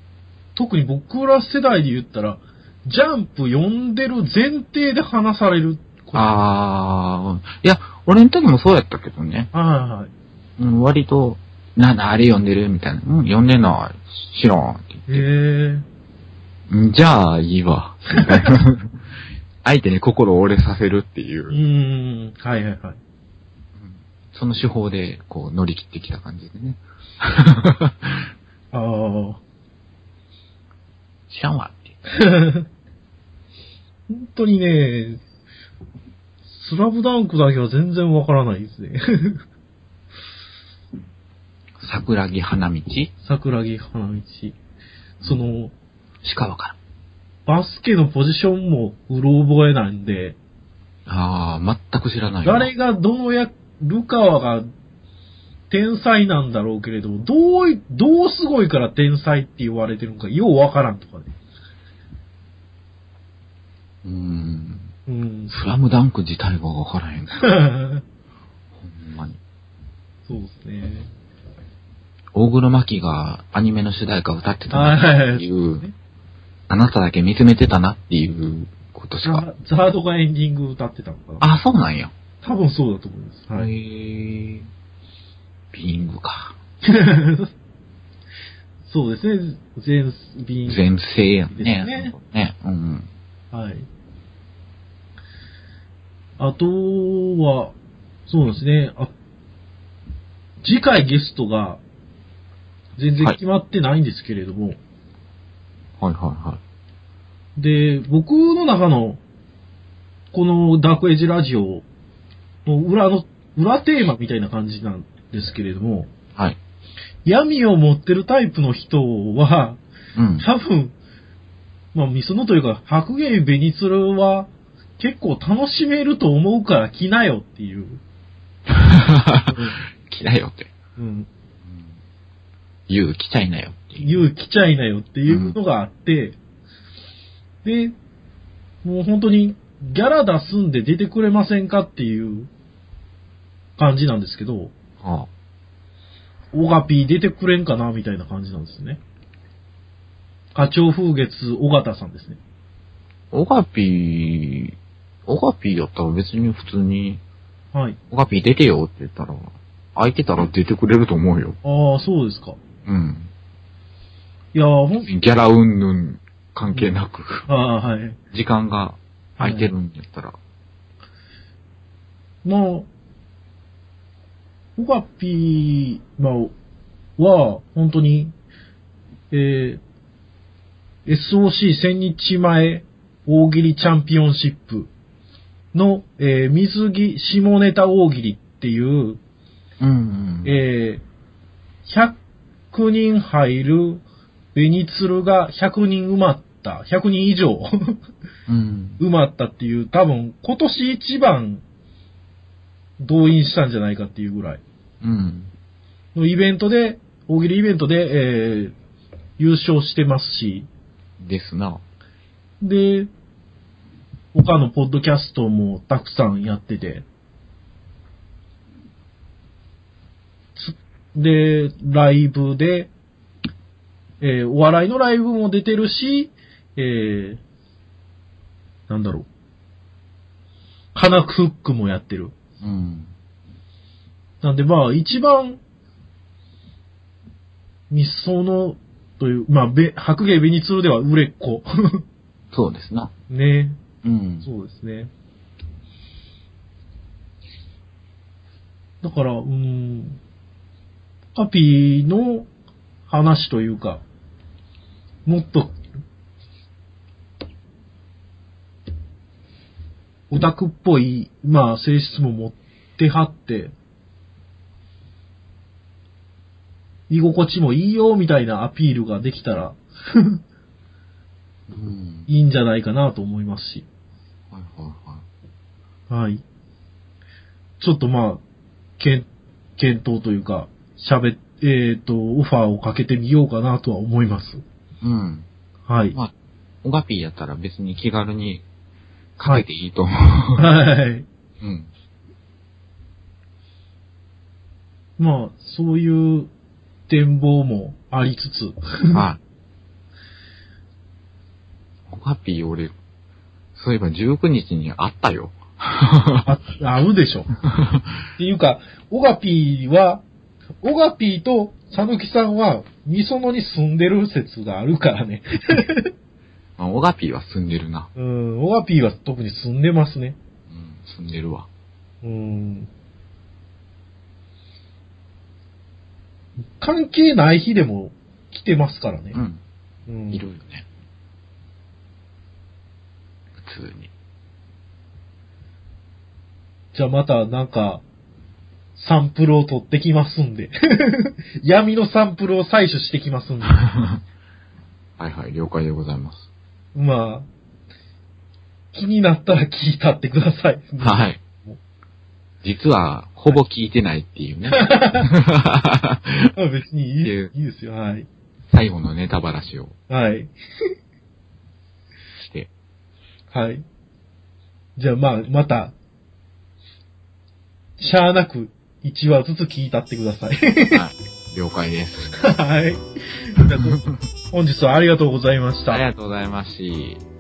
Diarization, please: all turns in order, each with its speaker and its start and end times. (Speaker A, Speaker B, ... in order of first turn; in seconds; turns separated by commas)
Speaker A: 0.6-6.3, Speaker B: 6.1-9.5, Speaker A: 9.5-10.1, Speaker B: 10.6-15.2, Speaker A: 15.1-15.8, Speaker B: 16.7-19.0, Speaker B: 19.6-21.6, Speaker A: 21.5-23.0, Speaker B: 23.8-28.3, Speaker A: 28.7-29.4, Speaker B: 31.3-32.0, Speaker A: 32.1-32.7, Speaker A: 34.1-35.2, Speaker A: 36.5-39.4, Speaker B: 41.8-43.1, Speaker A: 43.2-44.5, Speaker B: 45.2-45.5, Speaker A: 45.2-45.7, Speaker B: 46.2-46.8, Speaker A: 47.5-50.4, Speaker B: 51.0-52.7, Speaker A: 52.4-54.7, Speaker A: 55.7-61.3, Speaker B: 64.0-64.9, Speaker A: 65.1-65.5, Speaker B: 65.5-67.5, Speaker A: 67.4-68.0, Speaker B: 68.7-69.4, Speaker A: 70.3-71.1, Speaker B: 72.3-75.8, Speaker A: 74.7-75.9, Speaker B: 76.7-79.4, Speaker A: 79.2-81.4, Speaker B: 81.4-82.1, Speaker A: 82.4-83.7, Speaker B: 83.5-84.7, Speaker B: 85.7-86.5, Speaker A: 86.8-87.5, Speaker A: 88.9-90.8, Speaker B: 90.7-93.1, Speaker A: 91.5-92.1, Speaker A: 93.5-93.9, Speaker A: 96.4-97.7, Speaker A: 98.3-99.1, Speaker A: 100.6-101.8, Speaker A: 103.0-104.8, Speaker B: 106.0-106.6, Speaker A: 107.6-109.2, Speaker A: 110.3-111.8, Speaker A: 112.7-116.1, Speaker A: 117.2-119.8, Speaker B: 120.1-120.5, Speaker A: 120.4-120.9, Speaker A: 121.9-128.0, Speaker B: 128.7-130.7, Speaker A: 129.5-129.8, Speaker A: 131.0-131.3, Speaker B: 131.6-132.0, Speaker B: 132.9-134.2, Speaker A: 134.0-136.4, Speaker B: 135.3-135.6, Speaker A: 137.6-137.9, Speaker A: 138.8-142.5, Speaker A: 143.8-144.7, Speaker B: 145.0-145.3, Speaker A: 146.5-149.0, Speaker A: 150.5-152.4, Speaker B: 153.3-157.2, Speaker A: 157.7-158.0, Speaker B: 158.1-161.6, Speaker A: 161.6-162.6, Speaker B: 162.8-163.3, Speaker A: 164.5-165.1, Speaker B: 165.1-167.5, Speaker A: 166.7-166.9, Speaker A: 167.5-168.2, Speaker B: 168.3-170.4, Speaker A: 169.4-169.7, Speaker A: 172.4-172.9, Speaker A: 174.8-176.5, Speaker A: 177.2-178.3, Speaker A: 179.3-179.8, Speaker A: 181.1-184.9, Speaker A: 185.7-189.2, Speaker B: 189.8-190.5, Speaker A: 190.4-191.0, Speaker A: 191.8-192.2, Speaker A: 192.7-194.0, Speaker A: 194.5-198.0, Speaker B: 198.5-199.0, Speaker A: 199.0-201.6, Speaker A: 203.0-204.6, Speaker B: 205.0-205.5, Speaker A: 206.1-208.7, Speaker A: 209.4-210.7, Speaker B: 211.2-211.8, Speaker A: 212.6-213.1, Speaker A: 214.3-217.0, Speaker A: 220.6-222.9, Speaker A: 224.2-227.4, Speaker A: 228.9-229.3, Speaker A: 230.9-232.3, Speaker B: 232.6-233.1, Speaker A: 234.4-235.6, Speaker A: 237.9-242.0, Speaker B: 242.5-243.1, Speaker A: 243.3-243.8, Speaker B: 244.0-244.5, Speaker A: 244.4-245.1, Speaker A: 249.0-250.2, Speaker A: 251.3-252.5, Speaker A: 253.1-254.0, Speaker A: 255.2-255.8, Speaker A: 260.3-263.7, Speaker A: 267.1-270.4, Speaker B: 271.7-272.3, Speaker A: 272.3-273.9, Speaker B: 274.5-275.2, Speaker A: 276.1-276.4, Speaker A: 277.8-278.4, Speaker A: 279.0-284.6, Speaker B: 285.0-285.5, Speaker A: 285.9-286.2, Speaker B: 286.8-288.6, Speaker B: 289.4-290.6, Speaker A: 290.6-291.2, Speaker B: 291.6-291.9, Speaker A: 295.2-296.5, Speaker A: 297.1-299.2, Speaker B: 299.1-299.4, Speaker B: 302.1-302.9, Speaker B: 303.7-306.5, Speaker A: 306.4-307.5, Speaker B: 307.6-308.1, Speaker A: 308.4-310.2, Speaker A: 310.8-316.1, Speaker B: 316.8-318.1, Speaker A: 318.1-320.4, Speaker B: 320.7-321.7, Speaker A: 322.2-322.9, Speaker A: 326.8-329.4, Speaker B: 329.3-329.6, Speaker A: 330.1-330.5, Speaker B: 330.3-330.9, Speaker B: 333.6-334.1, Speaker A: 336.9-338.0, Speaker A: 338.9-343.9, Speaker B: 343.7-344.2, Speaker B: 345.2-346.4, Speaker A: 346.9-347.5, Speaker A: 348.9-351.8, Speaker B: 351.0-351.4, Speaker B: 352.6-356.5, Speaker A: 354.7-355.3, Speaker A: 356.5-358.3, Speaker B: 357.2-357.5, Speaker B: 358.7-359.9, Speaker A: 360.1-360.5, Speaker B: 362.4-362.7, Speaker A: 363.5-363.8, Speaker A: 365.0-365.9, Speaker A: 368.0-371.0, Speaker B: 370.9-372.3, Speaker A: 372.4-376.0, Speaker B: 375.9-377.2